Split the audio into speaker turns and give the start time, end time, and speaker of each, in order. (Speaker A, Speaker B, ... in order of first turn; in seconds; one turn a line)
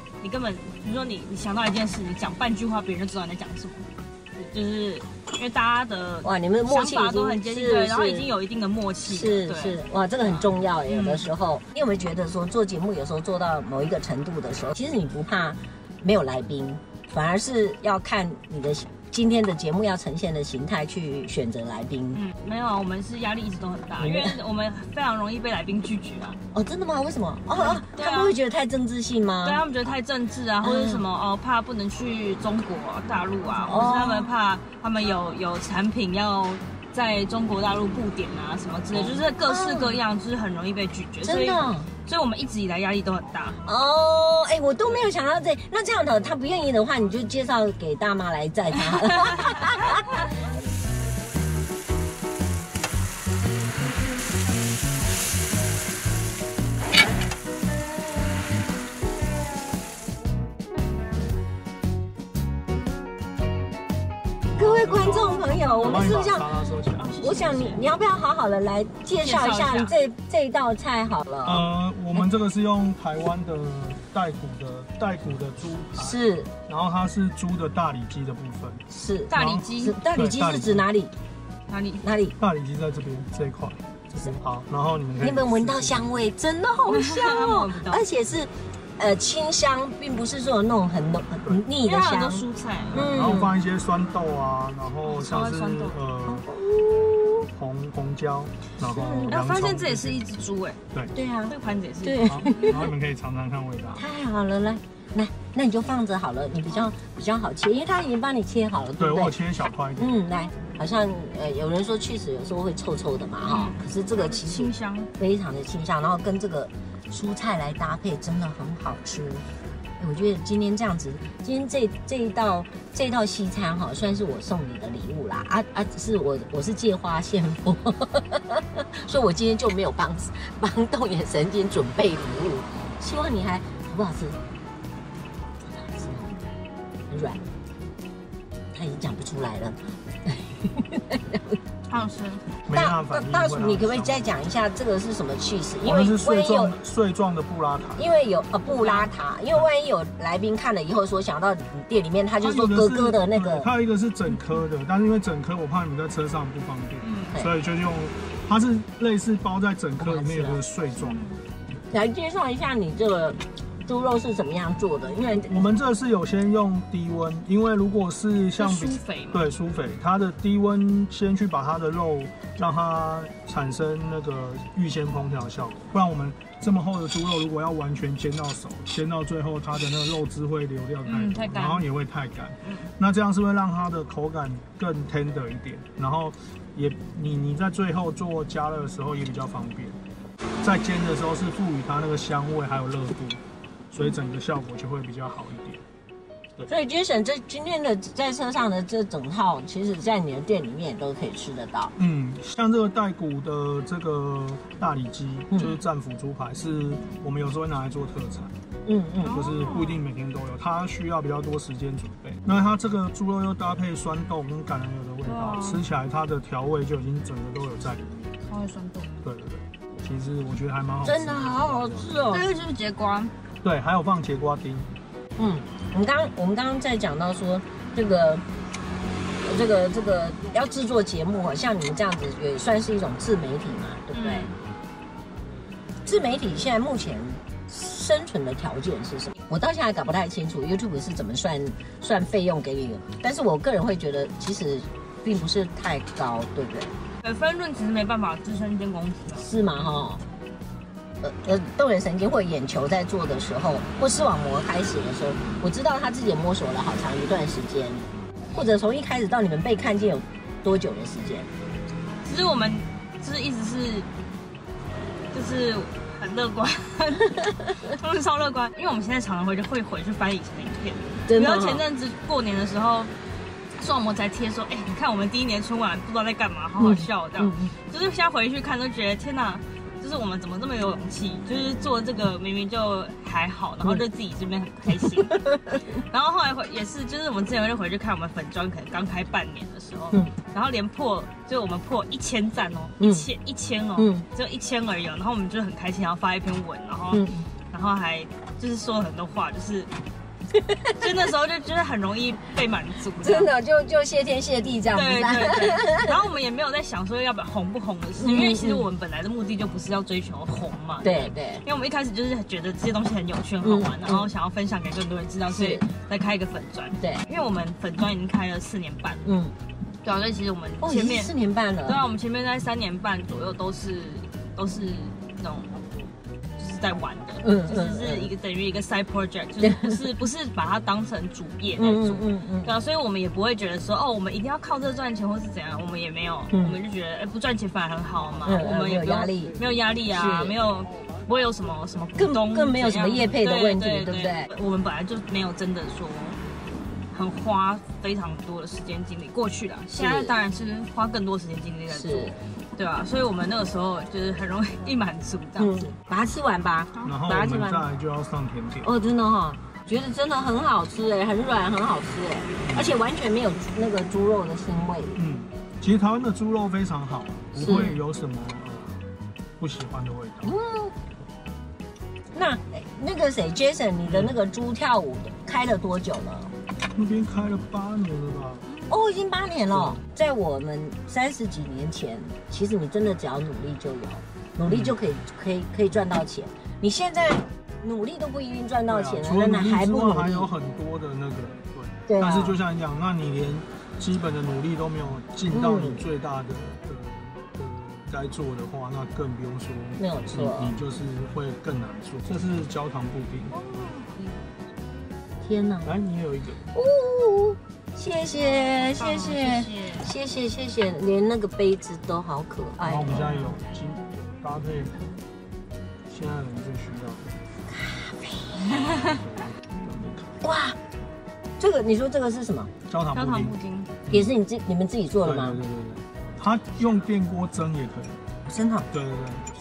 Speaker A: 0.2-11.2
Speaker B: 6.2-8.3
Speaker B: 9.0-22.2
Speaker A: 22.1-26.4
Speaker B: 24.0-24.4
Speaker B: 26.5-29.6
Speaker A: 27.5-28.4
Speaker A: 29.4-43.6
Speaker B: 30.6-31.0
Speaker B: 33.6-34.3
Speaker B: 38.9-40.0
Speaker B: 41.2-41.9
Speaker B: 43.6-50.2
Speaker A: 48.8-50.0
Speaker C: 64.5-67.3
Speaker B: 64.5-66.4
Speaker A: 65.1-67.8
Speaker B: 67.2-71.6
Speaker A: 69.2-69.9
Speaker C: 71.4-80.8
Speaker B: 76.0-76.5
Speaker B: 78.9-81.1
Speaker A: 79.3-80.0
Speaker A: 81.7-82.0
Speaker B: 82.0-82.3
Speaker C: 82.4-83.8
Speaker B: 84.1-84.4
Speaker C: 84.3-86.1
Speaker B: 85.2-93.5
Speaker A: 86.9-88.0
Speaker A: 91.8-93.1
Speaker C: 92.9-96.5
Speaker A: 95.0-96.0
Speaker B: 96.3-97.5
Speaker C: 97.5-100.2
Speaker B: 98.8-99.4
Speaker A: 99.3-100.8
Speaker B: 101.1-102.9
Speaker A: 101.5-102.8
Speaker C: 102.3-104.0
Speaker B: 104.0-109.3
Speaker C: 109.0-110.1
Speaker B: 110.0-119.4
Speaker A: 113.5-115.1
Speaker B: 120.0-134.4
Speaker B: 135.7-136.4
Speaker B: 137.1-137.4
Speaker B: 138.7-141.6
Speaker A: 141.9-142.4
Speaker C: 142.7-144.4
Speaker B: 142.7-146.7
Speaker C: 145.8-148.1
Speaker B: 148.0-153.7
Speaker A: 148.7-149.1
Speaker C: 152.4-161.2
Speaker A: 157.0-157.4
Speaker B: 160.0-160.6
Speaker A: 161.0-161.4
Speaker B: 161.9-165.7
Speaker C: 165.5-190.0
Speaker A: 168.6-169.4
Speaker A: 181.0-181.9
Speaker C: 190.6-195.8
Speaker B: 196.7-201.9
Speaker C: 201.9-208.5
Speaker B: 205.5-205.8
Speaker B: 208.8-209.4
Speaker A: 209.2-210.0
Speaker C: 209.2-218.1
Speaker A: 215.2-215.8
Speaker A: 218.4-219.1
Speaker C: 219.2-222.3
Speaker B: 221.0-222.5
Speaker A: 221.9-223.3
Speaker C: 223.6-224.9
Speaker B: 225.4-228.4
Speaker B: 229.4-234.5
Speaker A: 234.1-234.5
Speaker B: 236.1-246.9
Speaker A: 247.2-249.5
Speaker B: 249.4-250.2
Speaker B: 251.2-261.5
Speaker A: 262.2-264.1
Speaker A: 265.3-273.1
Speaker B: 267.4-267.7
Speaker B: 271.3-271.8
Speaker A: 273.8-299.9
Speaker B: 276.8-277.7
Speaker B: 285.2-285.8
Speaker B: 293.0-293.3
Speaker B: 294.0-294.2
Speaker B: 297.1-297.5
Speaker B: 300.6-301.1
Speaker A: 300.9-303.5
Speaker B: 303.2-306.2
Speaker A: 304.9-319.2
Speaker B: 308.2-308.9
Speaker B: 311.0-311.6
Speaker B: 313.6-314.3
Speaker B: 315.5-315.8
Speaker B: 319.2-319.5
Speaker A: 320.0-321.3
Speaker B: 320.8-322.0
Speaker A: 321.9-325.7
Speaker A: 326.6-346.4
Speaker B: 327.4-328.3
Speaker B: 329.6-330.0
Speaker B: 331.8-332.8
Speaker B: 336.5-336.8
Speaker B: 338.4-339.6
Speaker B: 340.1-340.5
Speaker B: 342.1-344.5
Speaker A: 347.1-355.9
Speaker B: 349.9-350.3
Speaker B: 351.9-352.4
Speaker B: 355.6-357.8
Speaker C: 357.0-358.9
Speaker B: 358.8-365.2
Speaker C: 362.6-363.0
Speaker C: 365.1-369.0
Speaker B: 367.6-368.0
Speaker C: 369.6-370.6
Speaker B: 370.4-370.9
Speaker B: 372.3-376.5
Speaker C: 374.1-374.4
Speaker C: 376.9-378.7
Speaker A: 378.7-378.9
Speaker B: 378.9-390.5
Speaker C: 379.7-380.0
Speaker C: 384.7-384.9
Speaker C: 388.9-403.6
Speaker B: 392.1-392.6
Speaker B: 395.5-396.0
Speaker B: 400.0-400.8
Speaker A: 403.5-404.4
Speaker B: 405.4-405.9
Speaker C: 405.8-406.6
Speaker B: 406.7-413.2
Speaker A: 408.4-410.1
Speaker C: 412.8-415.0
Speaker A: 413.1-413.4
Speaker C: 416.1-417.4
Speaker B: 417.7-418.7
Speaker C: 418.6-420.5
Speaker A: 418.7-419.2
Speaker B: 420.4-420.8
Speaker B: 421.6-422.7
Speaker C: 422.9-423.6
Speaker A: 423.1-423.9
Speaker B: 424.1-425.6
Speaker C: 425.2-428.2
Speaker B: 428.5-428.9
Speaker C: 428.9-429.5